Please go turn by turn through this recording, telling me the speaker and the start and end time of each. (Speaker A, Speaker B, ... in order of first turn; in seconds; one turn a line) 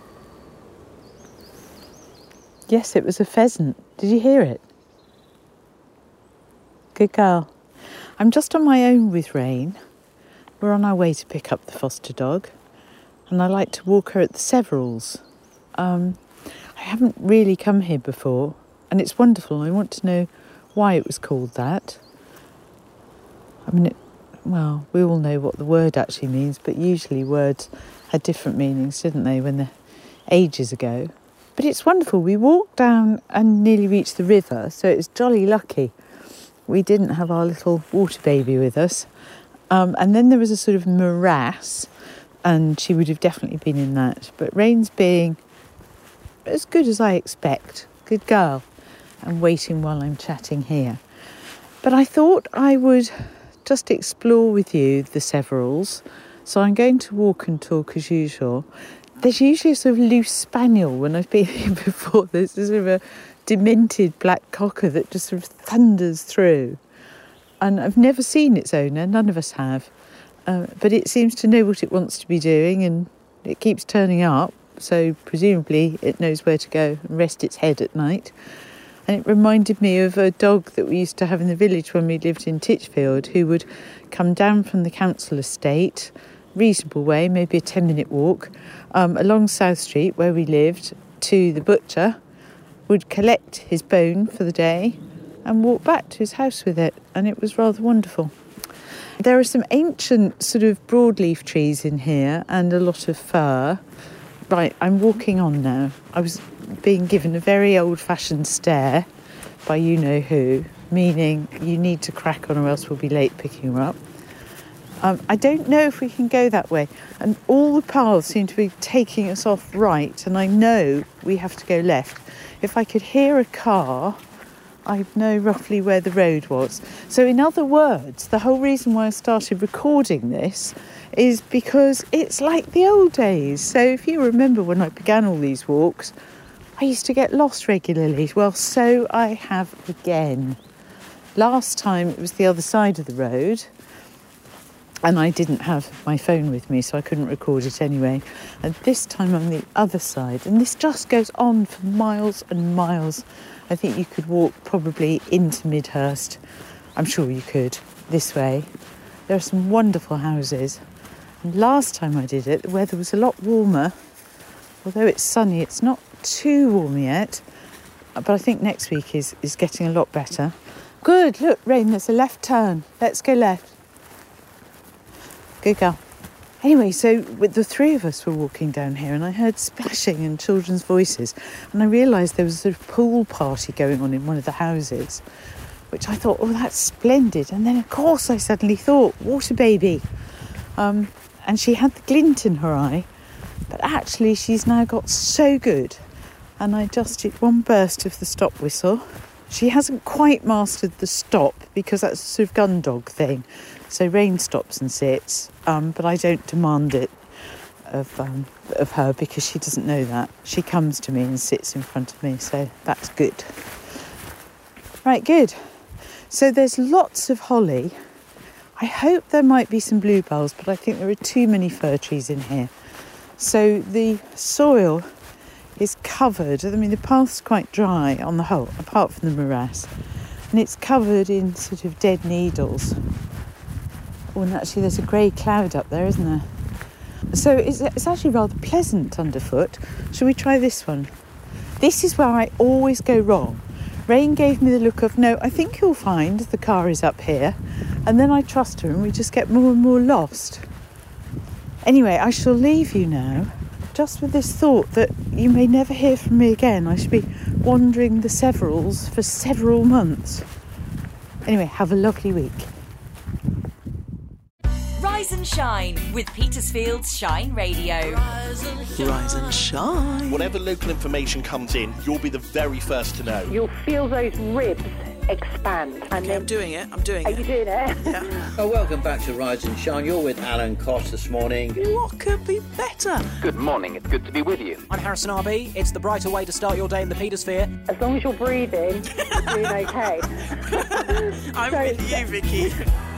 Speaker A: 2.7-4.6
Speaker A: 6.9-7.5
Speaker A: 8.2-9.8
Speaker A: 10.6-12.5
Speaker A: 13.3-15.2
Speaker A: 15.8-16.2
Speaker A: 16.8-22.0
Speaker A: 23.6-29.7
Speaker A: 30.3-35.9
Speaker A: 36.7-39.1
Speaker A: 39.7-41.9
Speaker A: 42.4-45.4
Speaker A: 46.5-48.6
Speaker A: 49.2-51.0
Speaker A: 51.8-53.1
Speaker A: 53.6-58.6
Speaker A: 59.2-66.8
Speaker A: 67.6-69.9
Speaker A: 70.5-78.3
Speaker A: 79.1-92.2
Speaker A: 92.9-98.3
Speaker A: 99.2-103.8
Speaker A: 104.5-109.1
Speaker A: 109.6-114.0
Speaker A: 115.0-124.2
Speaker A: 124.8-136.1
Speaker A: 136.8-140.6
Speaker A: 141.3-143.7
Speaker A: 145.0-156.4
Speaker A: 156.9-158.7
Speaker A: 159.3-160.8
Speaker A: 161.4-163.9
Speaker A: 164.8-167.4
Speaker A: 168.2-173.7
Speaker A: 175.6-176.0
Speaker A: 176.6-185.2
Speaker A: 185.9-190.1
Speaker A: 190.8-193.1
Speaker A: 193.7-196.0
Speaker A: 196.6-207.1
Speaker A: 207.9-213.5
Speaker A: 215.0-215.6
Speaker A: 216.3-217.9
Speaker A: 218.8-222.7
Speaker A: 223.4-225.1
Speaker A: 225.8-229.9
Speaker A: 230.5-232.9
Speaker A: 234.3-236.4
Speaker A: 237.3-241.1
Speaker A: 241.8-250.6
Speaker A: 251.8-260.4
Speaker A: 261.4-262.7
Speaker B: 265.0-268.2
Speaker C: 268.9-270.4
Speaker D: 270.3-273.6
Speaker E: 273.5-276.5
Speaker C: 276.2-277.4
Speaker E: 277.2-278.5
Speaker F: 278.6-281.8
Speaker C: 281.8-283.1
Speaker G: 282.0-284.8
Speaker H: 284.9-287.7
Speaker E: 287.9-292.7
Speaker C: 291.6-292.4